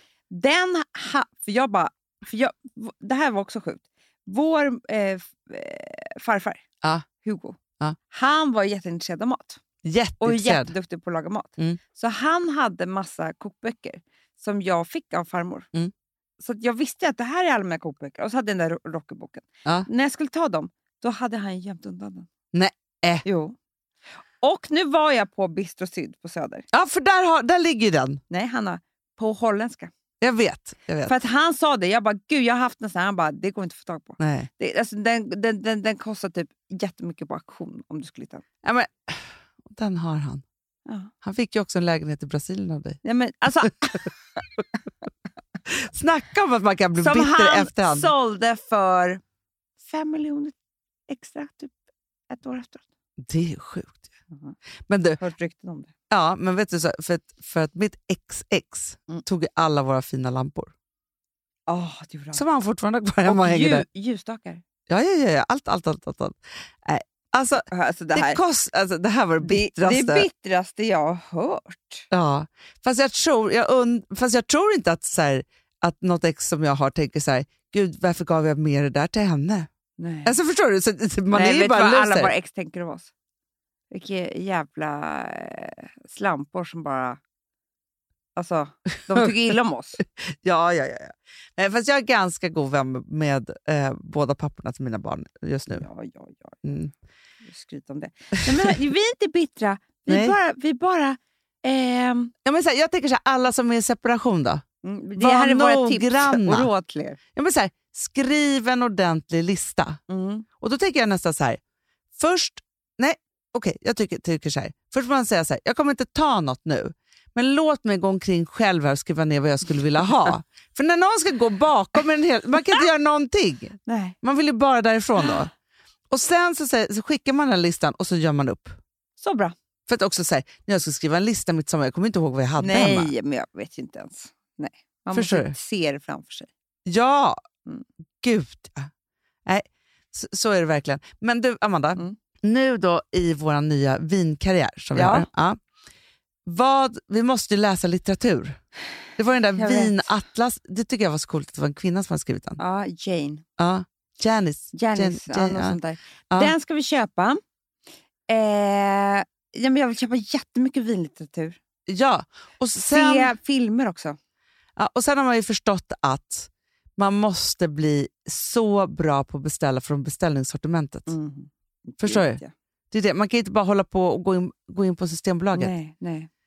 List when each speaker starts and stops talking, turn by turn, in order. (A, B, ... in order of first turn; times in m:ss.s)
0:00.3-0:06.6 A
0:07.2-0:09.6 A
0:09.8-0:10.7 B
0:10.2-0:15.7 A
0:16.4-0:22.3 A
0:22.5-0:23.2 B
0:23.2-0:23.6 A
0:24.4-0:26.6 A
0:26.7-0:28.2 B
0:28.3-0:29.9 A
0:30.2-0:31.1 B
0:31.1-0:38.4 A
0:34.2-0:34.5 B
0:38.6-0:40.4 B
0:40.8-0:41.1 A
0:41.2-0:43.0 B
0:43.0-0:44.1 A
0:45.6-0:48.1 B
0:47.0-0:49.2 A
0:49.8-0:50.5 A
0:51.1-0:52.8 A
0:53.2-0:54.0 B
0:54.3-0:54.6 A
0:54.9-0:55.2 B
0:55.2-0:55.9 A
0:56.1-1:00.7 B
1:01.7-1:02.4 A
1:02.3-1:03.8 B
1:03.2-1:04.6 A
1:04.9-1:10.3 B
1:07.7-1:08.4 A
1:09.4-1:12.0 A
1:12.1-1:19.7 B
1:20.0-1:20.3 A
1:20.2-1:22.3 B
1:21.3-1:23.1 A
1:23.9-1:27.2 A
1:28.4-1:30.0 A
1:30.0-1:35.9 B
1:35.8-1:36.7 A
1:36.6-1:36.9 B
1:37.4-1:42.3 A
1:40.1-1:40.4 B
1:42.4-1:44.6 B
1:44.8-1:47.2 A
1:45.2-1:46.7 B
1:47.3-1:50.0 B
1:50.1-1:50.4 A
1:50.6-1:51.6 B
1:52.2-2:05.5 B
2:03.9-2:04.2 A
2:06.1-2:08.8 B
2:09.2-2:09.5 A
2:09.9-2:13.1 B
2:12.6-2:16.5 A
2:15.1-2:15.5 B
2:16.8-2:17.4 B
2:18.2-2:18.9 B
2:19.4-2:25.6 B
2:24.9-2:25.3 A
2:26.4-2:28.6 B
2:29.2-2:32.6 B
2:29.6-2:30.1 A
2:32.6-2:33.4 A
2:33.6-2:35.8 B
2:34.7-2:37.4 A
2:38.3-2:41.6 A
2:41.9-2:43.3 B
2:42.7-2:44.2 A
2:44.8-2:51.1 B
2:51.1-2:52.5 A
2:52.0-2:55.7 B
2:55.5-2:56.3 A